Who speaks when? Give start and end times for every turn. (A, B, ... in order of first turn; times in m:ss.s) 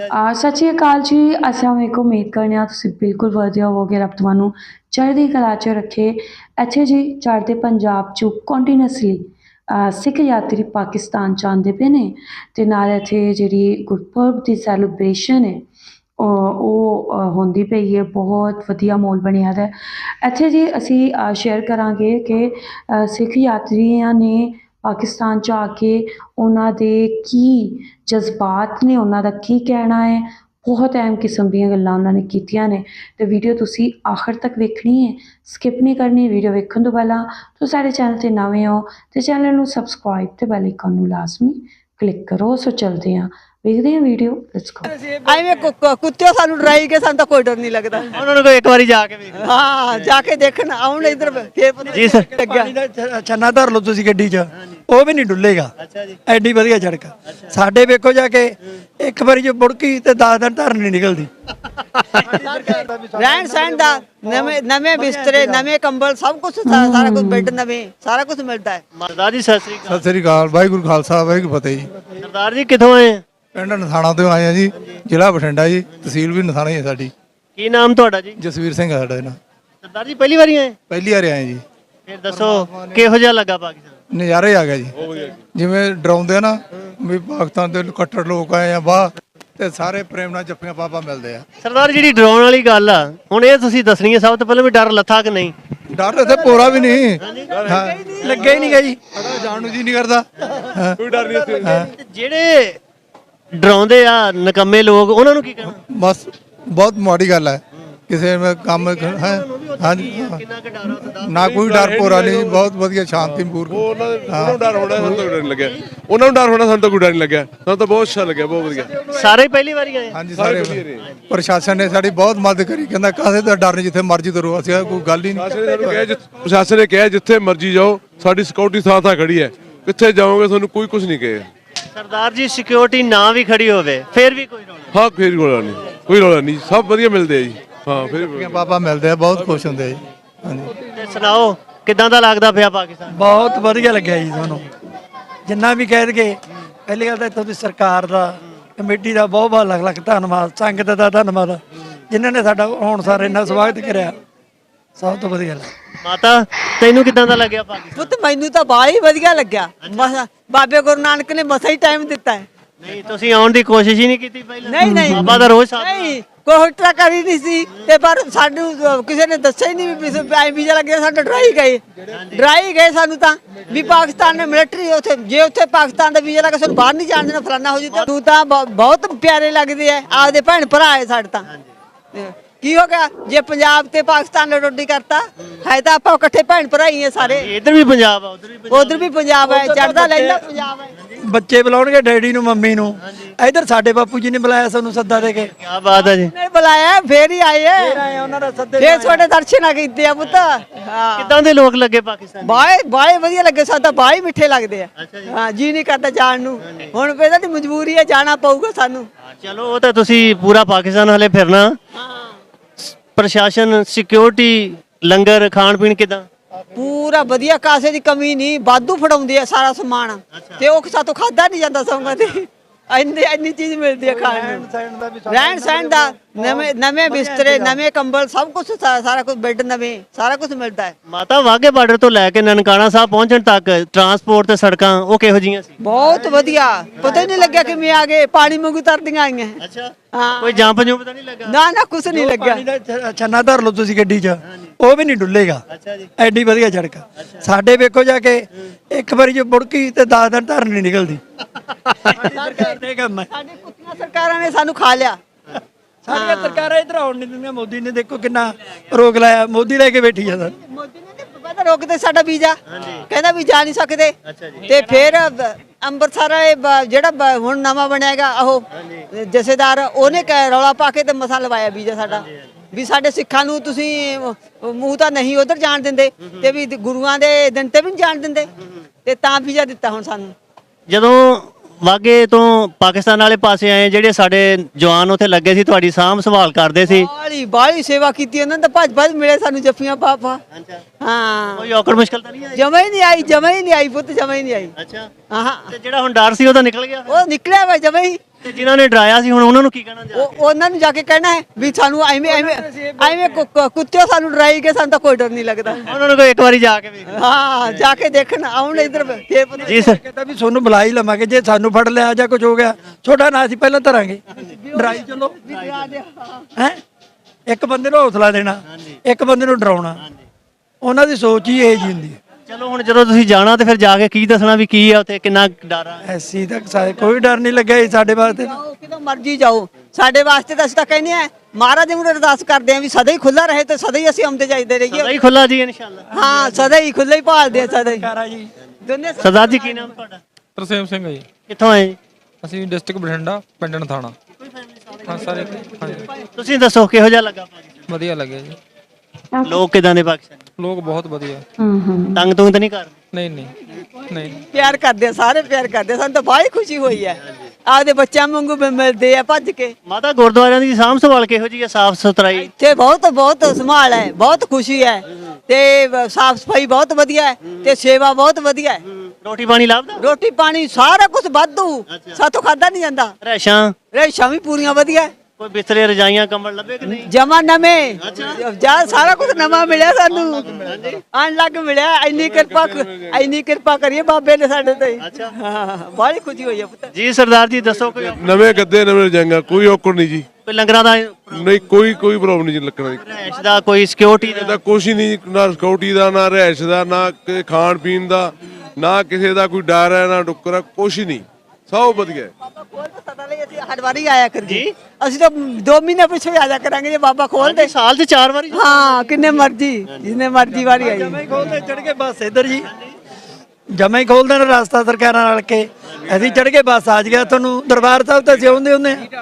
0:00.1-0:15.6 A
0:16.2-0:44.9 A
0:44.9-0:45.6 B
0:45.2-0:48.1 C
0:48.1-0:49.5 D
0:49.4-0:52.7 C
0:51.9-0:52.3 D
0:52.0-0:55.7 B
0:56.2-1:01.3 B
1:02.1-1:05.7 B
1:03.2-1:08.8 C
1:06.6-1:07.6 A
1:09.0-1:10.0 D
1:09.8-1:11.9 E
1:12.2-1:13.2 D
1:13.5-1:17.1 E
1:17.6-1:18.4 D
1:18.4-1:19.4 E
1:19.8-1:20.8 D
1:20.9-1:21.6 E
1:22.1-1:23.9 D
1:22.3-1:23.0 E
1:24.1-1:24.9 E
1:25.0-1:25.4 F
1:25.5-1:31.4 E
1:31.6-1:35.5 D
1:35.9-1:38.0 E
1:37.2-1:37.5 D
1:37.5-1:37.8 F
1:37.7-1:38.6 C
1:38.2-1:39.0 B
1:39.1-1:41.0 E
1:41.0-1:41.8 F
1:41.6-1:41.9 E
1:41.9-1:42.8 D
1:43.5-1:45.8 D
1:45.9-1:50.4 E
1:48.8-1:51.4 D
1:51.2-1:55.2 E
1:51.4-1:52.6 F
1:53.2-1:59.0 F
1:59.1-2:00.2 D
2:00.1-2:05.5 E
2:00.4-2:01.0 F
2:05.4-2:11.5 F
2:11.9-2:14.9 D
2:14.9-2:18.5 F
2:18.3-2:20.7 E
2:20.9-2:23.2 D
2:23.1-2:24.7 B
2:25.5-2:34.2 B
2:35.0-2:35.7 B
2:36.0-2:38.1 D
2:38.0-2:42.4 C
2:42.8-2:46.1 D
2:44.6-3:01.4 C
2:44.8-2:45.5 A
3:02.1-3:07.5 C
3:07.2-3:09.1 D
3:08.7-3:10.9 C
3:09.4-3:10.5 B
3:11.2-3:15.5 B
3:15.6-3:16.3 D
3:15.9-3:18.0 C
3:17.8-3:19.2 B
3:18.8-3:21.4 C
3:21.2-3:22.6 D
3:22.4-3:29.1 C
3:25.0-3:25.3 D
3:29.4-3:31.8 D
3:32.8-3:36.3 D
3:36.7-3:44.6 C
3:44.0-3:47.8 B
3:45.3-3:50.9 C
3:51.1-3:55.8 D
3:55.8-3:59.6 C
3:56.0-3:57.7 B
3:59.6-4:01.5 D
4:00.1-4:00.8 C
4:01.4-4:02.6 C
4:02.1-4:05.6 B
4:05.8-4:06.0 D
4:06.2-4:11.2 B
4:11.8-4:13.3 B
4:12.2-4:15.2 C
4:16.0-4:20.5 B
4:16.1-4:16.6 C
4:20.4-4:38.5 C
4:22.7-4:23.0 D
4:24.3-4:24.6 D
4:39.0-4:40.3 C
4:40.9-4:47.1 D
4:46.9-4:50.4 C
4:50.6-4:50.8 D
4:51.0-4:51.7 C
4:51.5-4:52.6 D
4:52.5-4:54.7 C
4:54.8-4:55.1 D
4:55.3-4:55.7 C
4:55.7-4:57.2 D
4:57.1-4:58.2 C
4:58.4-5:00.4 D
5:00.1-5:05.9 C
5:02.2-5:03.4 B
5:05.8-5:07.2 D
5:07.1-5:09.9 C
5:09.6-5:10.0 D
5:09.9-5:14.2 B
5:14.4-5:16.4 C
5:14.7-5:15.4 B
5:17.5-5:20.0 B
5:20.8-5:22.2 B
5:22.5-5:26.0 D
5:26.1-5:28.5 B
5:28.3-5:35.1 C
5:34.9-5:36.1 D
5:36.1-5:38.1 C
5:36.2-5:36.7 B
5:37.5-5:38.5 B
5:38.8-5:39.9 C
5:39.2-5:40.2 D
5:40.6-5:41.3 G
5:41.5-5:42.0 D
5:42.4-5:44.1 G
5:45.0-5:46.1 G
5:46.2-5:47.7 D
5:47.9-5:48.6 G
5:49.3-5:49.6 A
5:49.4-5:50.3 D
5:50.6-5:51.4 G
5:51.6-5:52.3 A
5:52.1-5:52.9 D
5:53.1-5:54.4 G
5:54.4-5:59.7 C
5:59.8-6:02.5 D
6:02.4-6:08.8 C
6:09.2-6:10.0 D
6:10.0-6:13.1 C
6:13.2-6:13.7 D
6:13.9-6:15.1 C
6:15.4-6:17.1 D
6:16.8-6:26.9 C
6:20.4-6:21.0 D
6:22.1-6:23.2 F
6:25.0-6:25.3 D
6:26.9-6:28.5 D
6:28.0-6:30.3 F
6:30.4-6:31.7 D
6:31.3-6:33.0 F
6:32.9-6:34.6 D
6:34.2-6:42.3 F
6:42.5-6:47.7 C
6:44.4-6:44.7 D
6:47.4-6:50.0 D
6:48.5-6:51.2 C
6:50.7-6:52.7 B
6:53.7-6:59.0 B